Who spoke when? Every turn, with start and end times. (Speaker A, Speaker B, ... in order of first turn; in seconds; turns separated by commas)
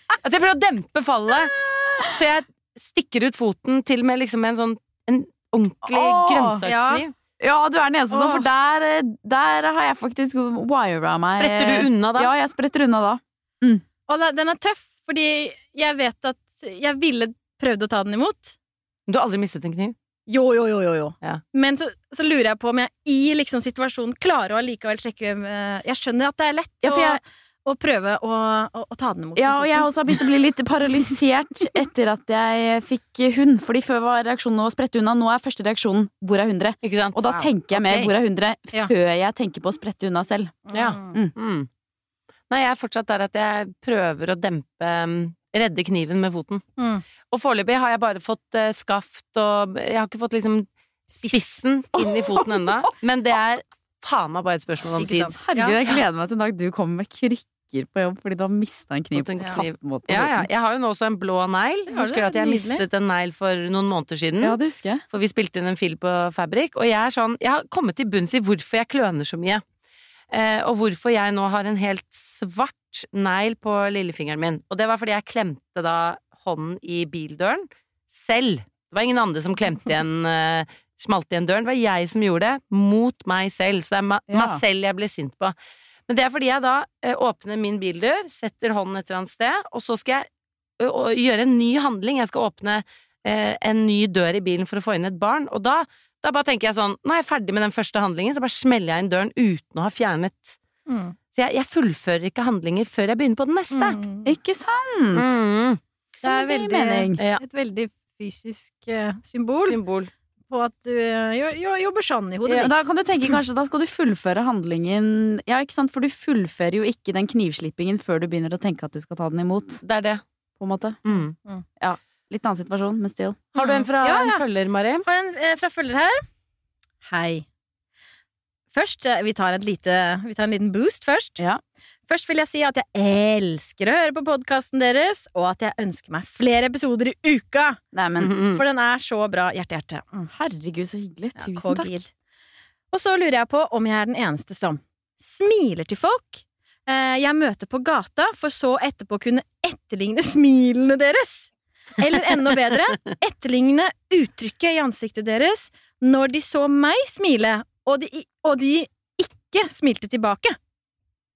Speaker A: 0.2-7.1, Speaker B: 5.8-6.6, Speaker C: 6.6-7.0, Speaker B: 7.4-13.8, Speaker C: 8.1-8.4, Speaker A: 11.3-12.3, Speaker C: 14.1-18.5, Speaker A: 19.1-19.9, Speaker C: 20.3-29.9, Speaker B: 26.8-27.2, Speaker B: 29.4-41.3, Speaker A: 36.8-37.2, Speaker C: 37.3-38.1, Speaker C: 40.7-41.1, Speaker A: 40.7-41.7, Speaker A: 42.5-46.6, Speaker C: 46.8-47.0, Speaker A: 47.3-50.7, Speaker A: 51.2-55.3, Speaker B: 52.0-52.7, Speaker C: 55.0-55.8, Speaker B: 55.4-60.5, Speaker A: 59.1-64.6, Speaker C: 61.9-62.8, Speaker B: 64.4-65.0, Speaker A: 65.1-69.6, Speaker A: 70.3-85.5, Speaker B: 84.3-84.6, Speaker A: 86.1-90.3, Speaker A: 90.8-100.6, Speaker C: 100.9-101.2, Speaker A: 101.3-104.0, Speaker C: 103.7-104.3, Speaker B: 104.2-105.4, Speaker A: 105.1-107.4, Speaker B: 106.2-107.2, Speaker C: 106.2-109.8, Speaker A: 109.6-110.1, Speaker C: 110.5-112.7, Speaker B: 112.5-119.8, Speaker A: 119.8-120.2, Speaker B: 120.6-121.0, Speaker A: 121.0-121.3, Speaker C: 121.1-121.6, Speaker B: 121.8-123.4, Speaker A: 123.5-125.0, Speaker C: 123.5-124.4, Speaker C: 125.0-126.2, Speaker C: 127.0-127.5, Speaker C: 128.7-131.4, Speaker C: 132.1-137.8, Speaker B: 137.9-138.3, Speaker A: 138.2-138.6, Speaker C: 138.5-140.3, Speaker B: 140.3-142.0, Speaker C: 141.4-142.1, Speaker C: 142.9-160.6